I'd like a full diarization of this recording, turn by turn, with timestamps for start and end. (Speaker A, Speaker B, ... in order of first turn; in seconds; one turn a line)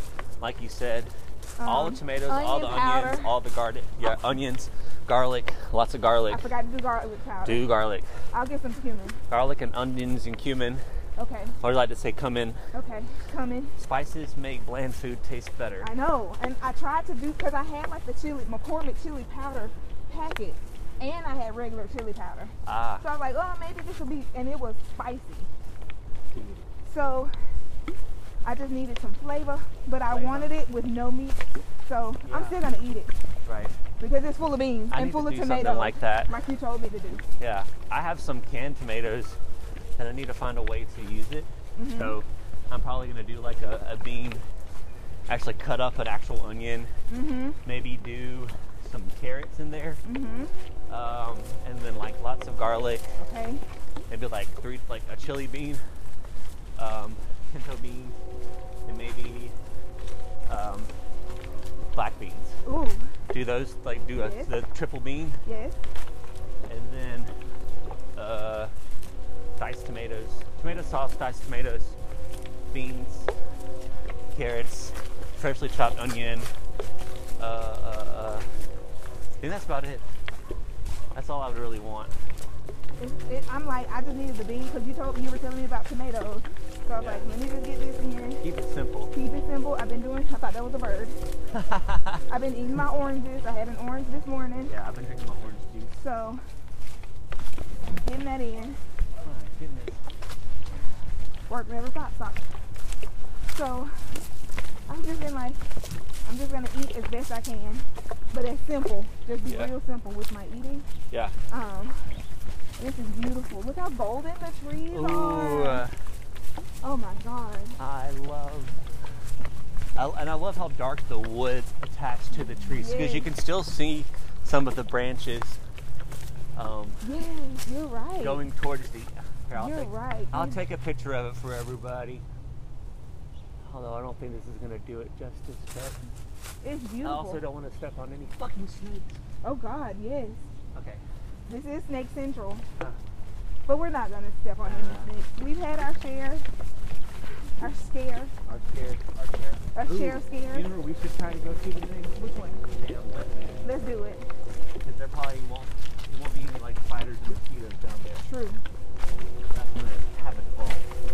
Speaker A: 0.4-1.1
Speaker B: 1.6-3.3
Speaker A: 1.6-6.4
Speaker B: 6.3-7.7
Speaker A: 7.4-8.1
Speaker B: 8.3-9.2
Speaker A: 9.3-10.8
Speaker B: 11.2-11.5
Speaker A: 11.6-12.6
Speaker B: 12.7-13.8
Speaker A: 13.8-15.9
Speaker B: 15.8-25.5
Speaker A: 22.6-23.0
Speaker A: 26.3-26.7
Speaker B: 26.9-27.3
Speaker B: 28.4-33.1
Speaker A: 30.1-30.5
Speaker A: 32.2-32.6
Speaker A: 33.4-33.8
Speaker B: 34.0-37.2
Speaker A: 34.9-36.3
Speaker A: 37.4-39.4
Speaker A: 40.0-44.4
Speaker B: 41.8-42.2
Speaker A: 45.3-46.9
Speaker B: 47.1-47.6
Speaker A: 47.6-50.0
Speaker B: 50.0-50.5
Speaker A: 50.9-53.0
Speaker B: 53.2-53.6
Speaker A: 54.1-55.8
Speaker A: 56.8-58.2
Speaker A: 58.9-59.5
Speaker A: 60.5-60.9
Speaker A: 61.9-62.6
Speaker B: 62.6-63.1
Speaker A: 63.3-65.4
Speaker B: 64.1-64.5
Speaker B: 65.4-65.8
Speaker A: 66.7-67.3
Speaker A: 68.2-68.7
Speaker A: 69.6-72.0
Speaker A: 72.7-73.3
Speaker A: 74.3-76.5
Speaker A: 77.4-78.5
Speaker A: 79.4-80.0
Speaker A: 81.1-82.1
Speaker B: 83.0-88.4
Speaker A: 87.0-87.2
Speaker A: 88.4-89.1
Speaker B: 89.1-91.2
Speaker A: 91.5-92.2
Speaker B: 92.3-94.8
Speaker A: 94.7-96.0
Speaker B: 96.0-96.4
Speaker B: 97.9-98.8
Speaker A: 99.2-100.0
Speaker B: 101.5-102.4
Speaker B: 103.5-103.9
Speaker B: 104.9-105.6
Speaker B: 106.2-110.9
Speaker A: 109.5-109.7
Speaker B: 111.5-112.0
Speaker B: 112.8-115.8
Speaker A: 114.9-116.0
Speaker B: 116.8-117.8
Speaker A: 117.8-118.8
Speaker A: 120.0-125.6
Speaker B: 122.6-123.3
Speaker A: 126.5-127.0
Speaker B: 127.0-128.4
Speaker A: 128.2-132.2
Speaker B: 129.6-130.6
Speaker A: 133.6-136.1
Speaker B: 136.6-137.4
Speaker A: 137.0-139.2
Speaker B: 139.4-140.4
Speaker A: 140.7-141.0
Speaker B: 141.5-142.6
Speaker B: 143.7-146.4
Speaker A: 144.6-145.1
Speaker B: 147.6-148.3
Speaker A: 148.4-152.1
Speaker B: 149.7-150.7
Speaker B: 152.1-152.6
Speaker A: 152.7-153.7
Speaker B: 153.6-154.2
Speaker A: 154.8-158.2
Speaker B: 158.2-158.6
Speaker A: 159.5-160.9